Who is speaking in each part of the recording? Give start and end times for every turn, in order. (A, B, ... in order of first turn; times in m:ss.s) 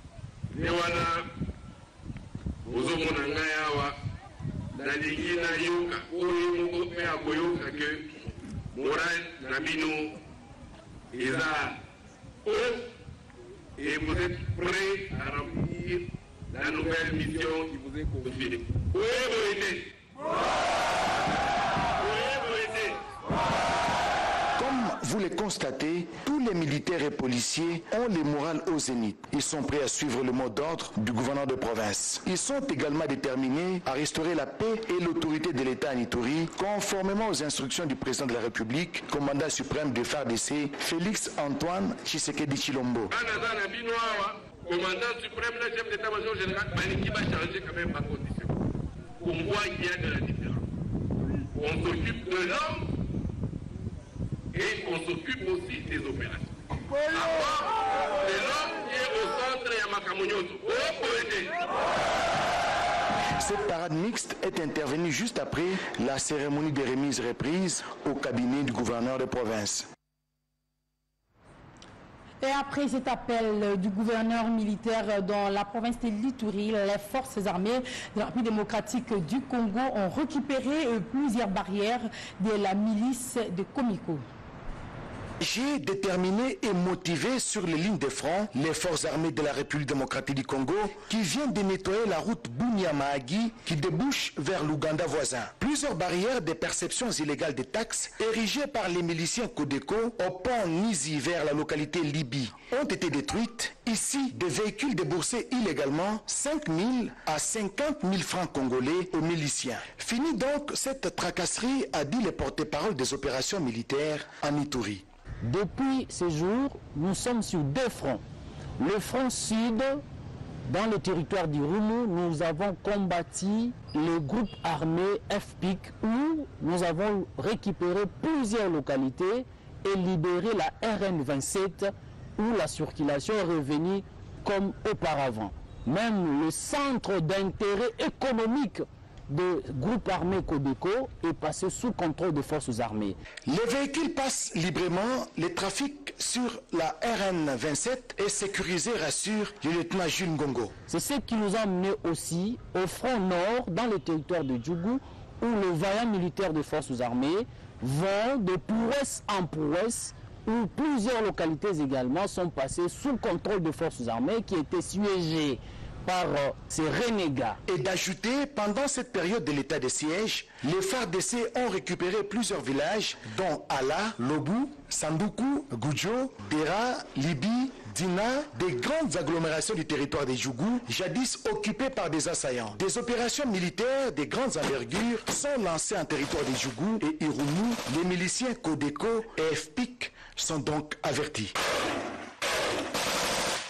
0:00.6-0:01.3 A
0:02.7-0:04.0 A
0:04.8-0:08.1 A
0:08.7-0:10.2 A
0:11.1-0:11.8 A
0:12.5-0:12.9 A
0:13.8-0:19.9 A
0:22.0-0:23.0 A
0:24.6-0:43.1 B
0:43.1-0:48.5 A
0:49.2-0:50.6 A
0:51.6-0:52.8 A
0:54.5-0:56.5 A
0:57.1-0:57.7 A
0:58.2-1:01.6 A
1:03.4-1:09.9 B
1:12.4-1:24.2 C
1:25.4-1:55.0 B
1:55.4-1:58.2 D
1:58.8-2:00.0 D
2:00.7-2:23.2 D
2:23.5-2:30.8 B
2:30.9-2:47.6 D
2:47.6-3:11.5 B